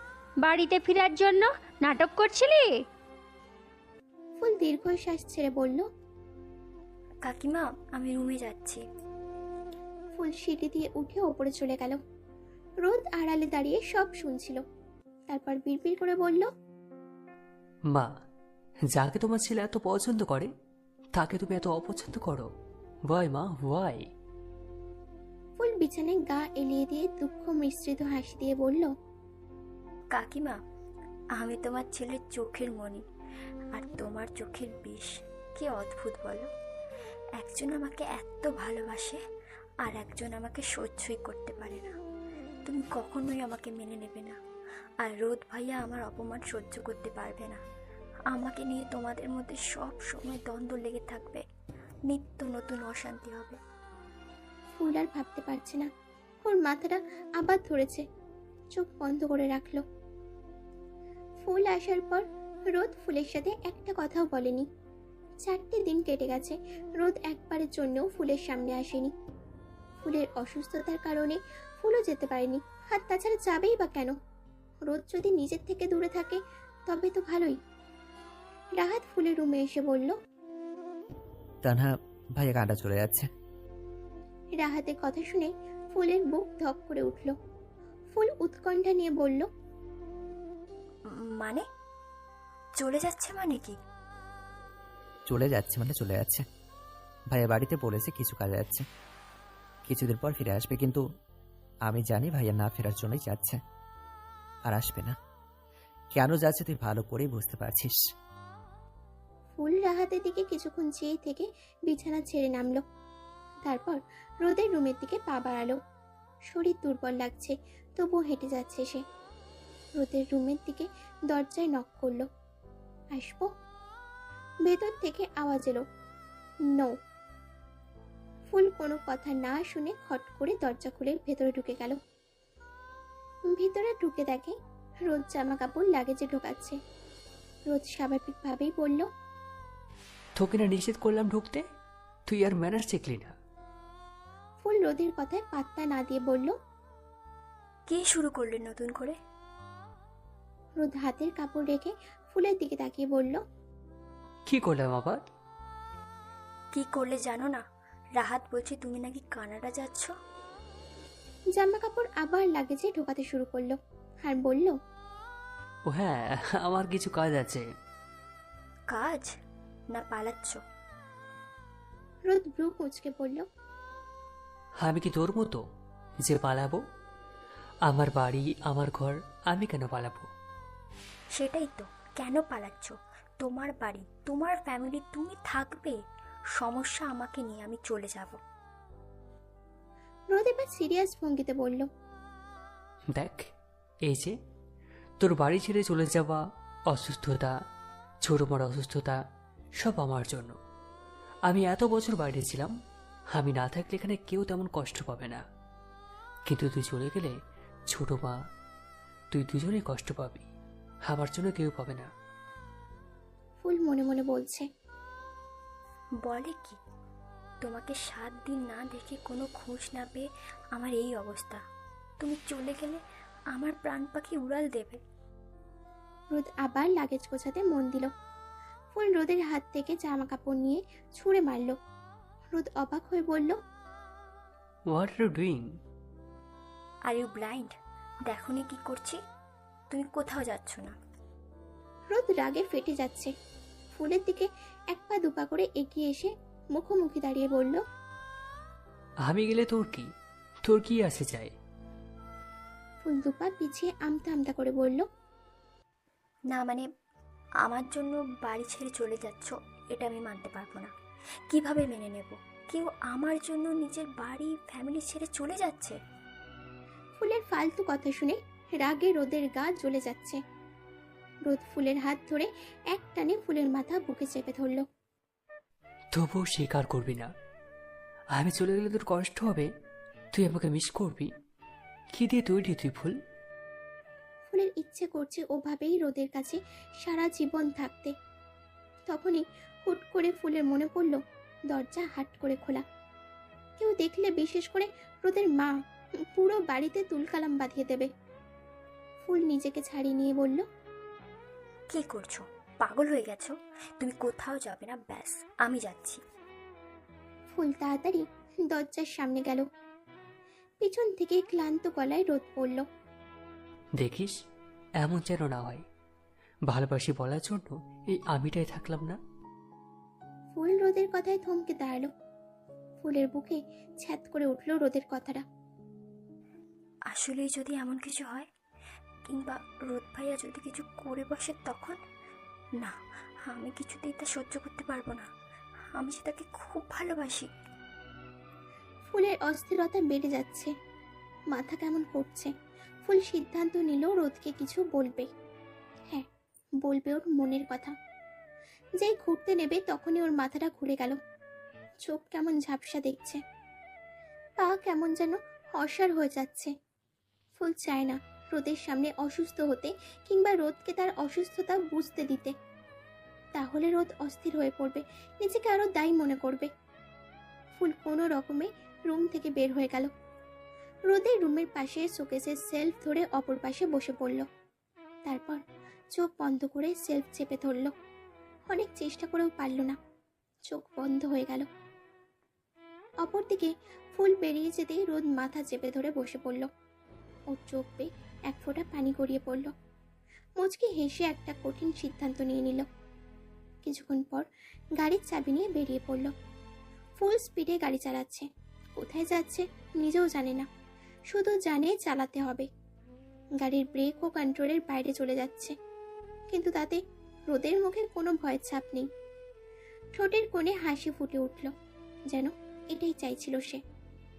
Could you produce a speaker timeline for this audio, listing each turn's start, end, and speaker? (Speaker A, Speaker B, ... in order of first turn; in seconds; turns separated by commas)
Speaker A: 0.4-2.8, Speaker B: 4.4-5.9, Speaker C: 7.2-8.8, Speaker B: 10.2-12.0, Speaker B: 12.8-14.6, Speaker B: 15.3-16.5, Speaker D: 18.9-20.5, Speaker D: 21.1-22.5, Speaker D: 23.1-24.1, Speaker B: 25.6-28.9, Speaker C: 30.1-30.6, Speaker C: 31.3-33.0, Speaker C: 33.7-36.5, Speaker C: 37.4-39.2, Speaker C: 39.8-42.0, Speaker C: 42.6-44.4, Speaker C: 45.0-47.6, Speaker C: 48.3-51.4, Speaker C: 52.1-53.6, Speaker B: 54.8-55.9, Speaker B: 56.4-58.1, Speaker B: 58.7-59.8, Speaker B: 61.4-64.7, Speaker B: 65.4-69.1, Speaker B: 70.0-74.2, Speaker B: 74.8-77.6, Speaker B: 78.8-80.2, Speaker E: 81.6-83.3, Speaker B: 84.6-87.3, Speaker B: 88.1-89.5, Speaker C: 91.1-91.7, Speaker C: 92.8-93.8, Speaker E: 95.3-96.4, Speaker E: 97.3-98.8, Speaker E: 99.9-101.0, Speaker E: 101.9-103.6, Speaker E: 104.7-105.2, Speaker E: 106.1-108.0, Speaker B: 109.6-112.8, Speaker B: 113.6-115.8, Speaker B: 116.5-119.0, Speaker B: 120.0-122.3, Speaker B: 123.1-123.5, Speaker B: 124.6-125.8, Speaker B: 126.7-127.0, Speaker B: 128.5-132.0, Speaker B: 133.5-136.8, Speaker B: 137.7-139.1, Speaker D: 140.4-141.7, Speaker D: 142.3-143.3, Speaker B: 144.6-146.6, Speaker C: 147.9-149.2, Speaker B: 150.8-153.4, Speaker D: 154.5-155.2, Speaker C: 156.7-157.6, Speaker C: 158.2-160.1, Speaker B: 161.5-164.8, Speaker D: 165.9-167.7, Speaker C: 168.9-169.3, Speaker C: 169.9-170.6, Speaker B: 172.2-173.4, Speaker D: 174.8-175.6, Speaker D: 176.2-176.8, Speaker D: 177.9-180.3, Speaker C: 181.3-186.0, Speaker C: 186.6-188.4, Speaker B: 190.3-191.9, Speaker D: 193.1-193.5, Speaker D: 194.1-194.3, Speaker D: 195.2-197.5, Speaker D: 198.2-199.2, Speaker D: 199.8-200.6, Speaker D: 201.5-202.7, Speaker D: 203.3-205.4, Speaker D: 206.5-207.3, Speaker D: 207.9-208.4, Speaker D: 209.3-210.5, Speaker D: 211.1-212.1, Speaker B: 213.6-214.7, Speaker C: 216.2-216.8, Speaker C: 217.6-221.6, Speaker C: 222.2-223.0, Speaker C: 223.5-225.0, Speaker B: 226.3-228.1, Speaker B: 228.9-231.8, Speaker B: 232.5-233.6, Speaker D: 234.9-235.7, Speaker C: 237.1-237.7, Speaker C: 238.3-239.2, Speaker C: 239.9-240.9, Speaker B: 242.1-243.3, Speaker B: 243.9-247.8, Speaker D: 249.2-250.1, Speaker D: 250.6-251.5, Speaker B: 253.0-255.1, Speaker C: 256.5-256.9, Speaker C: 257.6-260.9, Speaker C: 261.5-266.0, Speaker B: 267.2-270.4, Speaker B: 271.4-274.9, Speaker D: 276.1-277.3, Speaker D: 278.3-279.7, Speaker D: 280.3-281.3, Speaker D: 282.1-283.2, Speaker B: 284.5-288.1, Speaker B: 289.1-292.8, Speaker B: 293.8-298.1, Speaker B: 299.2-300.6, Speaker C: 301.9-306.2, Speaker B: 307.5-309.6, Speaker B: 310.8-312.9, Speaker D: 314.0-314.4, Speaker D: 315.0-315.8, Speaker D: 316.7-319.2, Speaker B: 320.5-322.1, Speaker B: 323.0-325.4, Speaker C: 327.1-328.5, Speaker C: 329.3-332.0, Speaker C: 332.8-335.3, Speaker C: 335.9-337.5, Speaker B: 339.1-340.7, Speaker B: 341.5-342.5, Speaker B: 343.0-345.3, Speaker B: 346.8-347.9, Speaker B: 349.0-351.2, Speaker B: 352.0-353.4, Speaker B: 354.6-356.7, Speaker B: 357.6-362.5, Speaker B: 363.6-366.7, Speaker B: 367.8-370.1, Speaker B: 371.1-374.5, Speaker B: 375.2-377.9, Speaker B: 378.7-380.0, Speaker B: 380.7-381.7, Speaker B: 383.2-386.7, Speaker B: 387.5-389.7, Speaker B: 390.6-392.9, Speaker B: 393.8-394.5, Speaker B: 395.0-396.3, Speaker B: 397.2-398.5, Speaker B: 399.0-400.7, Speaker B: 401.3-402.7, Speaker B: 403.6-405.8, Speaker B: 406.5-409.1, Speaker B: 410.2-411.7, Speaker B: 412.3-413.8